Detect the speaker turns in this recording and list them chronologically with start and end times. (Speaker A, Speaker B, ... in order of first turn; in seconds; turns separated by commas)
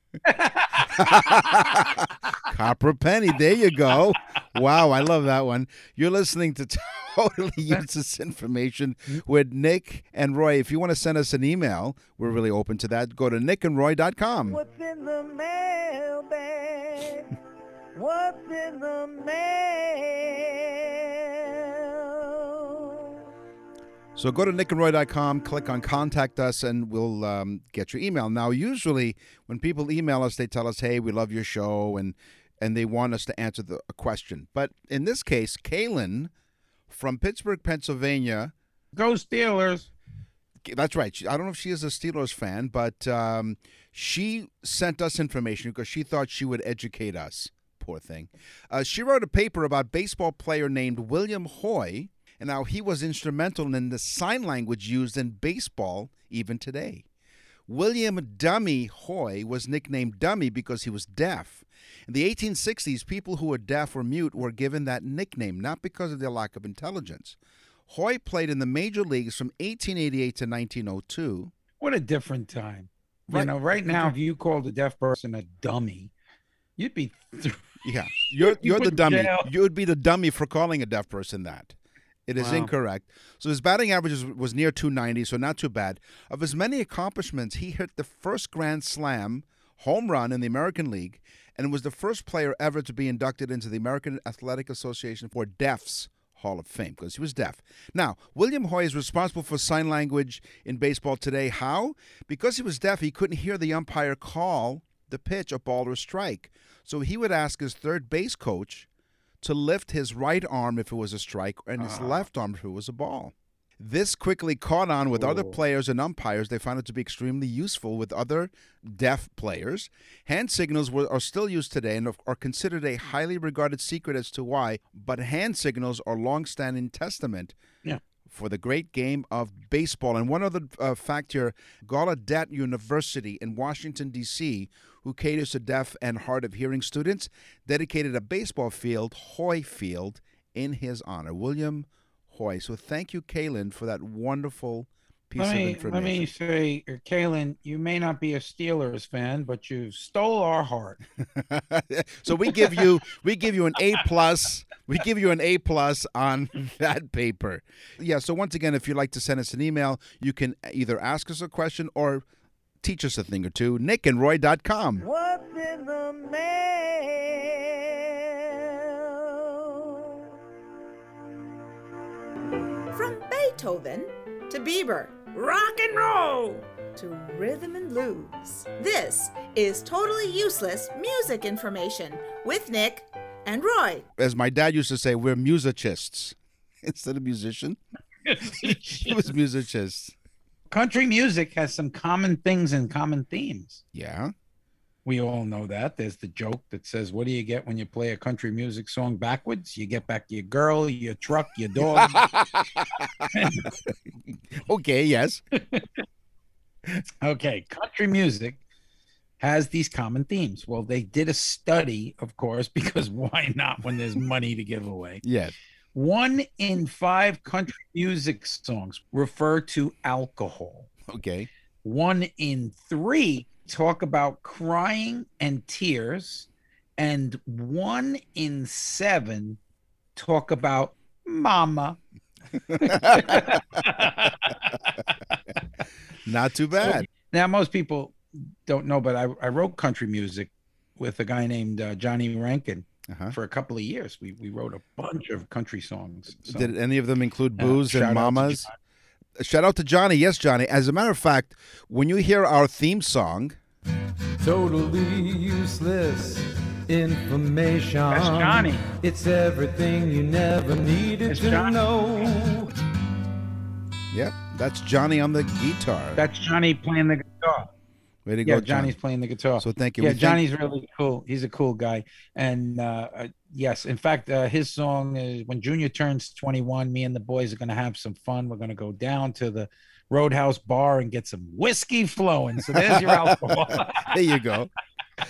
Speaker A: 0.2-2.4, Speaker B: 0.9-14.6, Speaker C: 14.5-17.3, Speaker C: 18.0-22.9, Speaker B: 24.1-36.3, Speaker B: 36.9-38.5, Speaker A: 38.9-39.9, Speaker B: 40.6-57.0, Speaker B: 57.7-67.4, Speaker B: 67.9-71.5, Speaker A: 71.8-76.1, Speaker B: 73.3-74.1, Speaker A: 76.8-79.5, Speaker B: 77.8-108.9, Speaker A: 82.4-82.7, Speaker B: 109.4-127.6, Speaker A: 111.8-112.3, Speaker A: 115.1-115.6, Speaker B: 128.3-146.3, Speaker A: 145.4-151.0, Speaker B: 151.3-162.2, Speaker B: 162.8-165.1, Speaker C: 165.0-169.9, Speaker D: 172.9-175.3, Speaker C: 175.3-176.7, Speaker D: 176.9-184.1, Speaker B: 184.2-187.8, Speaker A: 188.3-189.2, Speaker B: 188.4-190.2, Speaker A: 190.7-193.8, Speaker B: 193.9-194.3, Speaker A: 195.1-202.3, Speaker B: 201.8-203.9, Speaker A: 203.3-203.7, Speaker B: 204.5-205.4, Speaker A: 205.6-205.9, Speaker A: 207.2-208.6, Speaker A: 209.4-215.2, Speaker B: 215.2-215.6, Speaker A: 215.9-220.9, Speaker B: 221.1-221.5, Speaker A: 221.8-229.6, Speaker A: 230.2-232.0, Speaker A: 232.8-234.8, Speaker B: 232.8-233.6, Speaker B: 236.2-237.1, Speaker A: 236.8-246.8, Speaker B: 243.1-243.4, Speaker B: 246.5-248.7, Speaker A: 247.6-248.7, Speaker B: 249.4-253.6, Speaker E: 254.4-262.7, Speaker A: 258.1-258.9, Speaker A: 261.3-262.2, Speaker B: 264.1-266.2, Speaker A: 266.2-267.7, Speaker B: 268.2-269.0, Speaker A: 268.4-284.1, Speaker B: 269.6-270.4, Speaker B: 282.8-284.7